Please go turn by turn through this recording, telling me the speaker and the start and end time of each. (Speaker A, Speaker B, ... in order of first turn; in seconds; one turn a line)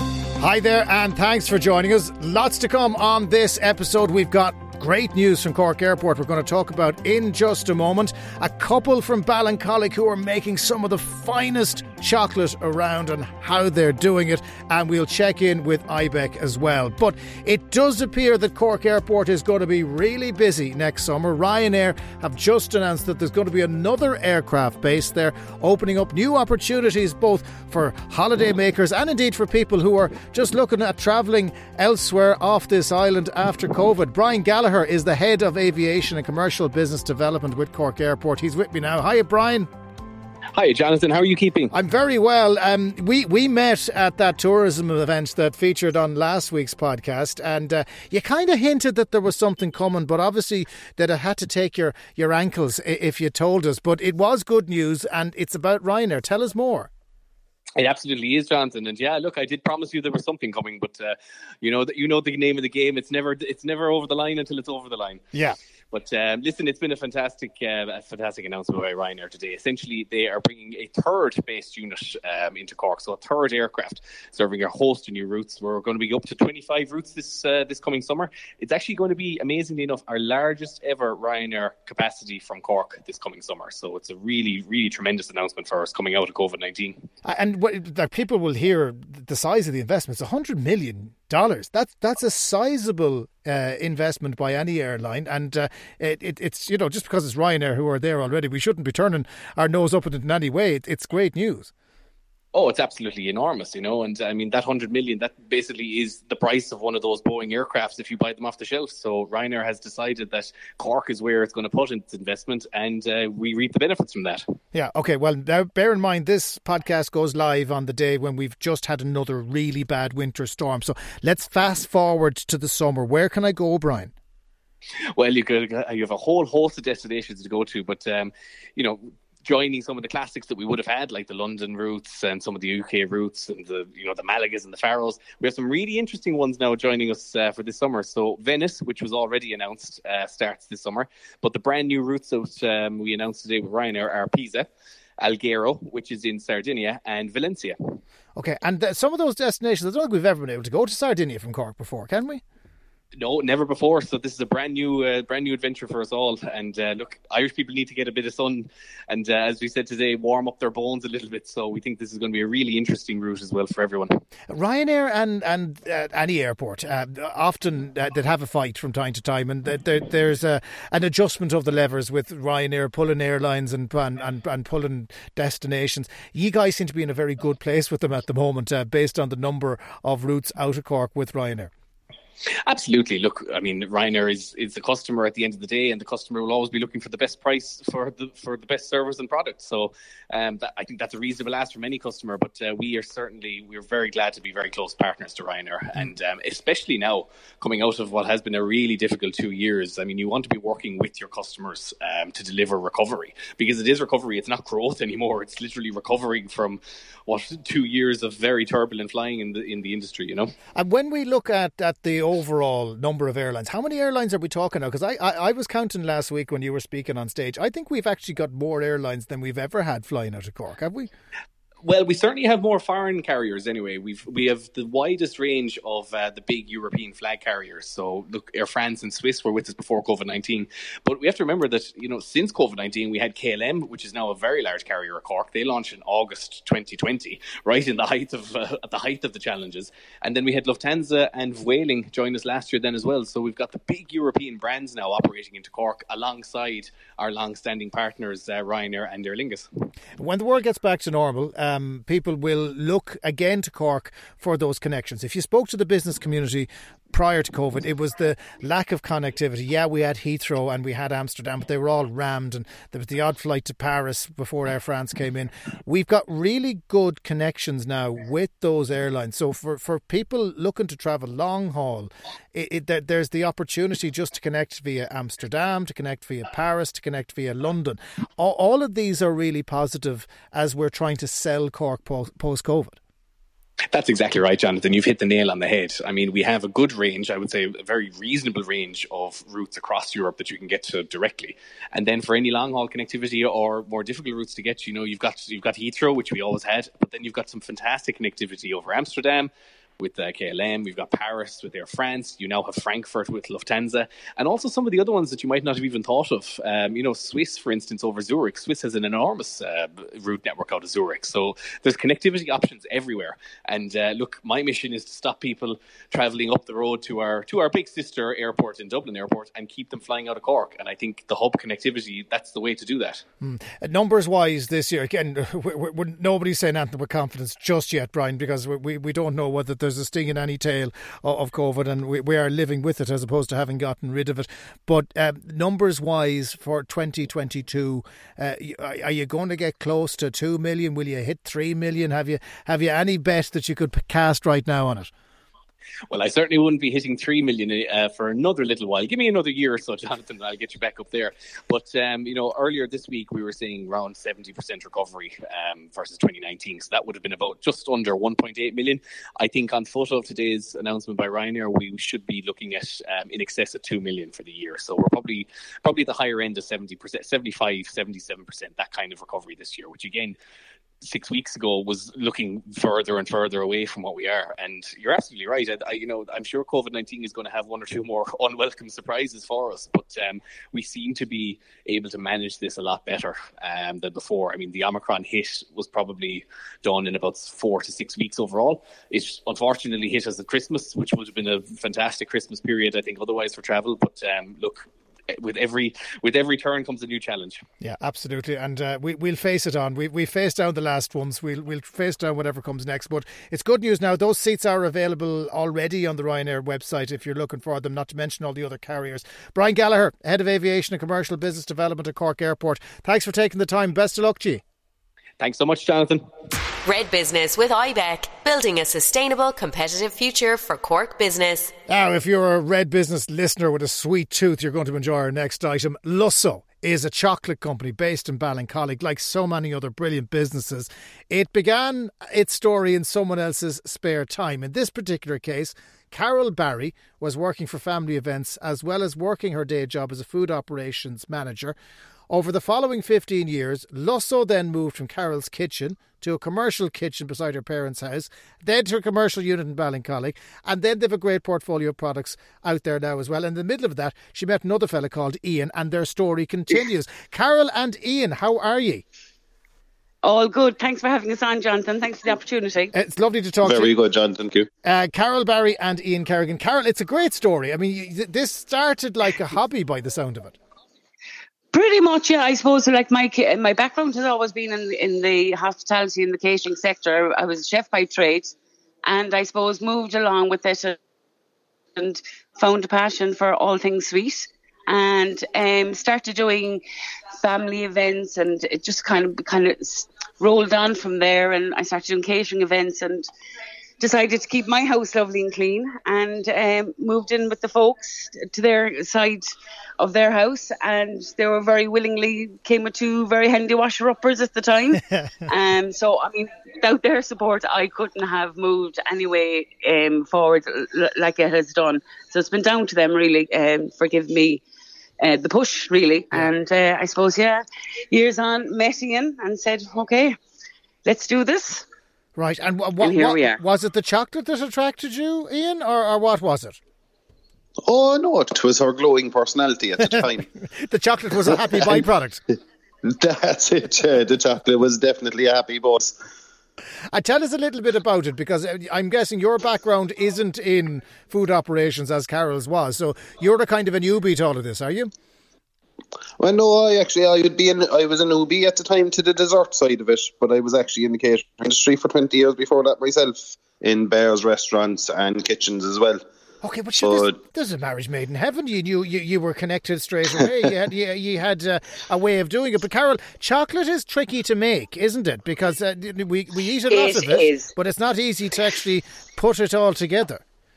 Speaker A: 0.4-39.7
Speaker B: 40.5-41.7
Speaker A: 41.7-56.9
Speaker B: 57.8-65.2
Speaker B: 65.9-87.0
Speaker A: 87.2-101.7
Speaker B: 102.5-114.5
Speaker A: 114.7-124.1
Speaker B: 125.1-144.7
Speaker B: 145.2-148.0
Speaker A: 148.3-152.4
Speaker B: 153.2-164.2
Speaker A: 164.5-181.7
Speaker B: 182.6-210.5
Speaker A: 210.8-221.1
Speaker B: 221.8-249.7
Speaker A: 250.2-283.0
Speaker B: 283.9-323.2
Speaker A: 323.4-345.1
Speaker B: 346.1-370.4
Speaker B: 371.0-397.6
Speaker A: 397.8-414.6
Speaker B: 415.4-416.2
Speaker C: 416.8-421.7
Speaker A: 421.9-441.8
Speaker A: 442.3-459.0
Speaker D: 460.2-462.9
Speaker A: 462.9-463.9
Speaker E: 463.6-464.7
Speaker A: 464.8-470.6
Speaker D: 471.7-478.5
Speaker D: 479.1-481.0
Speaker D: 481.9-486.8
Speaker D: 487.4-493.3
Speaker D: 494.0-514.6
Speaker D: 515.2-520.4
Speaker D: 521.0-521.8
Speaker A: 522.4-526.8
Speaker D: 523.0-523.6
Speaker E: 527.8-530.5
Speaker A: 530.8-532.4
Speaker E: 533.0-536.1
Speaker A: 537.1-545.1
Speaker E: 546.4-556.2
Speaker A: 556.6-570.4
Speaker E: 557.0-557.3
Speaker D: 566.9-567.7